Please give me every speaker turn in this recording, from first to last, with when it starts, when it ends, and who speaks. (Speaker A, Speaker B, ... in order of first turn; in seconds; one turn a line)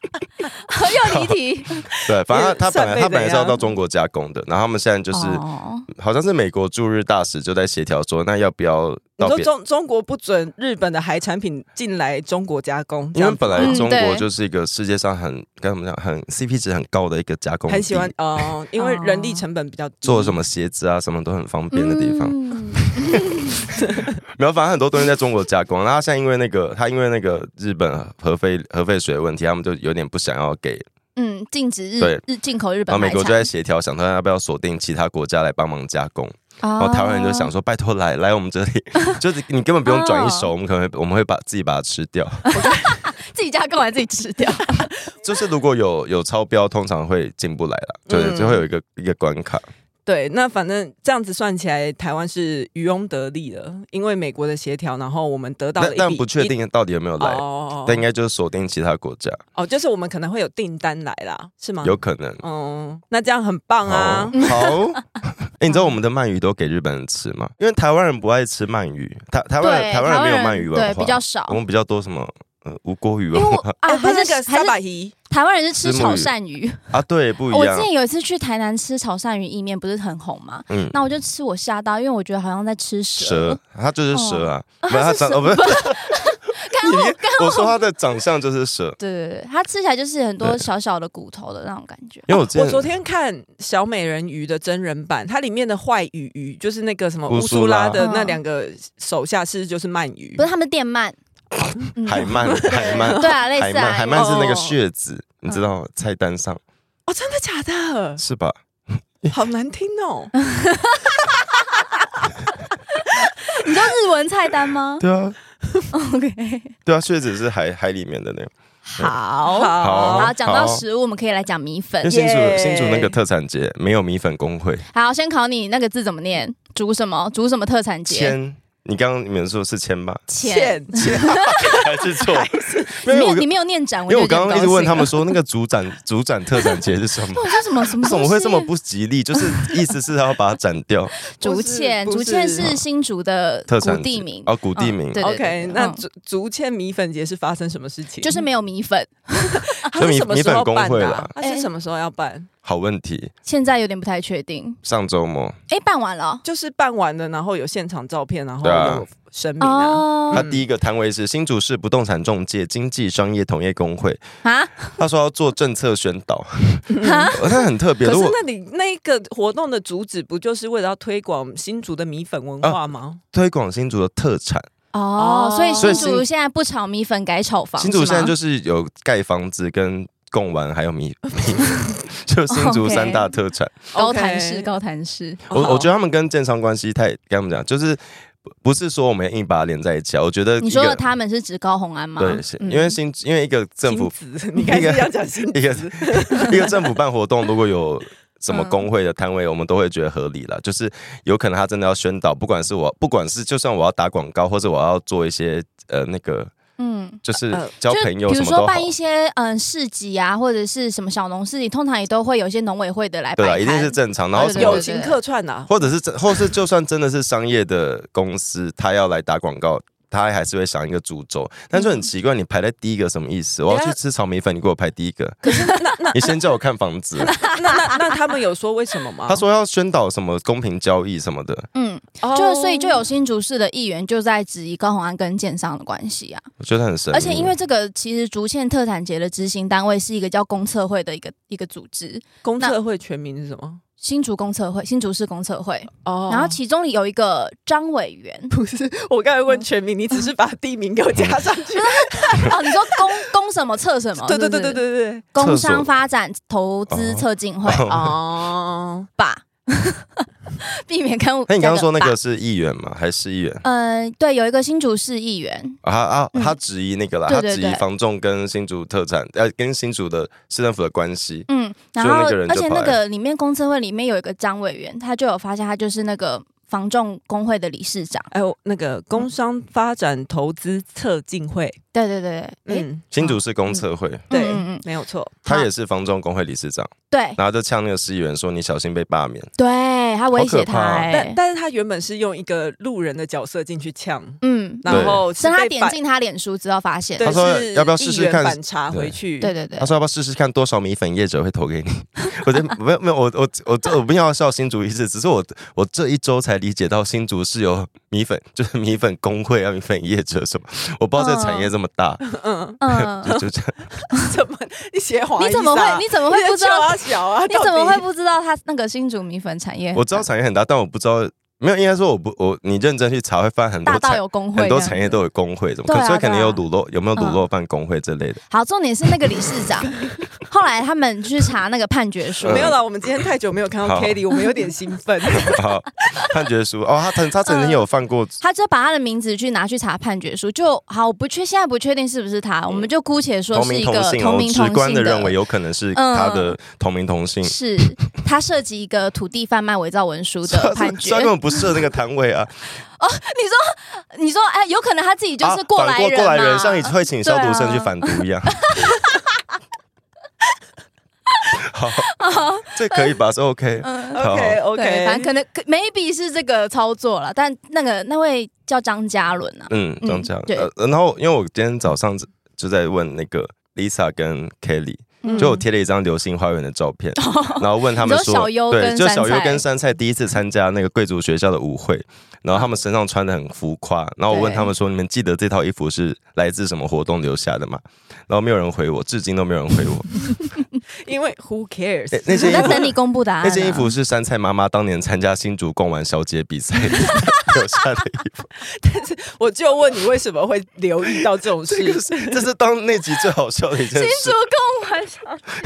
Speaker A: 0.6-1.8
Speaker B: 1.0-1.4
Speaker B: 1.9-9.5
Speaker C: 1.9-3.6
Speaker A: 5.1-5.9
Speaker C: 9.2-13.8
Speaker B: 13.1-18.5
Speaker A: 13.6-14.2
Speaker C: 17.7-20.4
Speaker A: 18.8-19.4
Speaker B: 20.0-30.8
Speaker A: 21.7-23.6
Speaker A: 31.1-33.5
Speaker B: 32.9-42.5
Speaker A: 36.6-37.5
Speaker A: 39.8-40.5
Speaker A: 42.5-44.9
Speaker C: 42.5-43.0
Speaker B: 45.2-49.6
Speaker C: 48.1-48.7
Speaker C: 50.0-56.5
Speaker B: 55.8-59.4
Speaker C: 57.2-58.0
Speaker C: 59.5-64.5
Speaker B: 61.8-62.4
Speaker B: 63.9-73.7
Speaker A: 64.3-64.7
Speaker A: 69.6-71.6
Speaker A: 73.3-74.8
Speaker C: 73.8-75.1
Speaker A: 75.3-76.9
Speaker B: 75.8-76.3
Speaker B: 76.9-77.9
Speaker A: 77.5-83.6
Speaker B: 80.7-81.0
Speaker B: 83.2-89.0
Speaker A: 84.1-87.8
Speaker A: 89.0-92.3
Speaker B: 92.3-92.9
Speaker C: 92.3-100.4
Speaker B: 97.3-98.0
Speaker A: 98.0-98.4
Speaker A: 100.4-101.2
Speaker A: 101.9-104.5
Speaker B: 102.0-106.6
Speaker C: 102.3-103.3
Speaker C: 104.1-104.8
Speaker C: 107.1-108.2
Speaker B: 108.2-109.3
Speaker C: 109.3-110.3
Speaker A: 110.4-111.4
Speaker A: 113.2-115.0
Speaker B: 115.0-115.3
Speaker A: 115.9-116.7
Speaker B: 116.8-119.1
Speaker A: 118.8-122.1
Speaker C: 119.4-120.3
Speaker B: 119.8-120.8
Speaker B: 122.0-124.8
Speaker C: 122.1-123.2
Speaker A: 124.9-128.3
Speaker B: 128.1-130.3
Speaker A: 130.3-131.7
Speaker C: 130.4-133.0
Speaker B: 131.2-133.5
Speaker A: 133.1-135.2
Speaker B: 134.1-141.1
Speaker A: 137.3-138.7
Speaker A: 141.3-146.0
Speaker C: 141.4-142.7
Speaker B: 143.7-145.2
Speaker C: 145.2-148.4
Speaker A: 148.2-149.7
Speaker C: 149.5-152.5
Speaker B: 150.0-151.3
Speaker A: 151.4-151.7
Speaker B: 152.6-153.3
Speaker A: 153.4-154.8
Speaker B: 154.8-155.6
Speaker A: 155.7-156.4
Speaker C: 156.4-160.6
Speaker B: 158.6-159.0
Speaker A: 159.6-160.4
Speaker B: 160.3-164.2
Speaker A: 164.4-164.9
Speaker B: 165.0-168.4
Speaker C: 166.9-167.3
Speaker A: 167.0-167.6
Speaker C: 168.0-173.2
Speaker B: 173.3-174.7
Speaker A: 174.9-178.3
Speaker C: 175.2-176.2
Speaker B: 175.8-176.2
Speaker B: 177.8-183.7
Speaker A: 182.5-183.3
Speaker C: 183.9-184.7
Speaker A: 183.9-185.6
Speaker B: 185.5-188.0
Speaker C: 185.5-185.8
Speaker B: 188.6-191.0
Speaker A: 190.6-192.9
Speaker B: 192.2-206.5
Speaker C: 193.9-196.9
Speaker A: 198.5-198.9
Speaker A: 206.8-207.2
Speaker B: 207.2-208.9
Speaker A: 207.9-215.2
Speaker B: 213.4-214.8
Speaker C: 214.4-215.8
Speaker B: 215.7-227.4
Speaker C: 223.7-224.0
Speaker A: 225.4-226.1
Speaker C: 225.5-226.3
Speaker A: 227.2-228.2
Speaker C: 227.4-229.4
Speaker B: 229.3-231.7
Speaker A: 231.7-236.4
Speaker C: 232.2-233.1
Speaker B: 236.6-237.5
Speaker A: 237.1-242.8
Speaker C: 242.4-243.8
Speaker A: 244.0-248.5
Speaker C: 246.0-246.6
Speaker C: 248.5-253.0
Speaker A: 251.7-254.8
Speaker C: 254.2-255.2
Speaker A: 255.3-258.0
Speaker B: 255.3-255.9
Speaker B: 256.9-258.2
Speaker C: 257.9-259.1
Speaker A: 259.2-262.1
Speaker B: 261.5-263.6
Speaker A: 263.6-265.8
Speaker B: 265.8-273.0
Speaker A: 267.3-267.8
Speaker A: 271.5-278.3
Speaker C: 278.3-281.8
Speaker A: 281.9-282.9
Speaker C: 282.7-285.4
Speaker B: 283.1-284.3
Speaker A: 284.3-284.8
Speaker B: 285.4-289.5
Speaker A: 287.1-287.4
Speaker A: 289.6-291.4
Speaker B: 290.3-291.1
Speaker C: 291.1-296.0
Speaker A: 294.4-297.4
Speaker B: 294.9-295.2
Speaker C: 297.2-299.5
Speaker B: 297.2-299.1
Speaker A: 299.4-299.9
Speaker B: 299.8-312.2
Speaker A: 311.2-311.7
Speaker C: 312.2-318.0
Speaker A: 312.8-313.4
Speaker B: 312.8-313.8
Speaker A: 315.4-320.2
Speaker B: 319.9-328.4
Speaker A: 323.8-325.2
Speaker A: 325.9-326.6
Speaker A: 327.1-327.4
Speaker A: 328.5-332.7
Speaker B: 332.4-332.8
Speaker C: 332.4-335.6
Speaker B: 333.8-334.2
Speaker B: 335.3-338.4
Speaker A: 337.4-337.8
Speaker A: 338.4-345.3
Speaker B: 343.5-347.6
Speaker A: 345.9-346.6
Speaker A: 347.4-351.6
Speaker B: 350.4-352.5
Speaker A: 353.0-359.4
Speaker B: 355.4-358.7
Speaker A: 361.4-363.1
Speaker B: 361.6-362.1
Speaker B: 362.6-364.6
Speaker A: 363.8-370.7
Speaker C: 364.1-365.3
Speaker B: 369.7-390.3
Speaker A: 375.2-375.6
Speaker C: 375.2-375.6
Speaker A: 377.2-379.6
Speaker A: 384.3-384.7
Speaker C: 391.0-392.8
Speaker B: 392.1-398.5
Speaker A: 392.4-393.9
Speaker A: 397.0-397.5
Speaker C: 398.6-402.4
Speaker B: 401.7-404.4
Speaker A: 403.9-405.4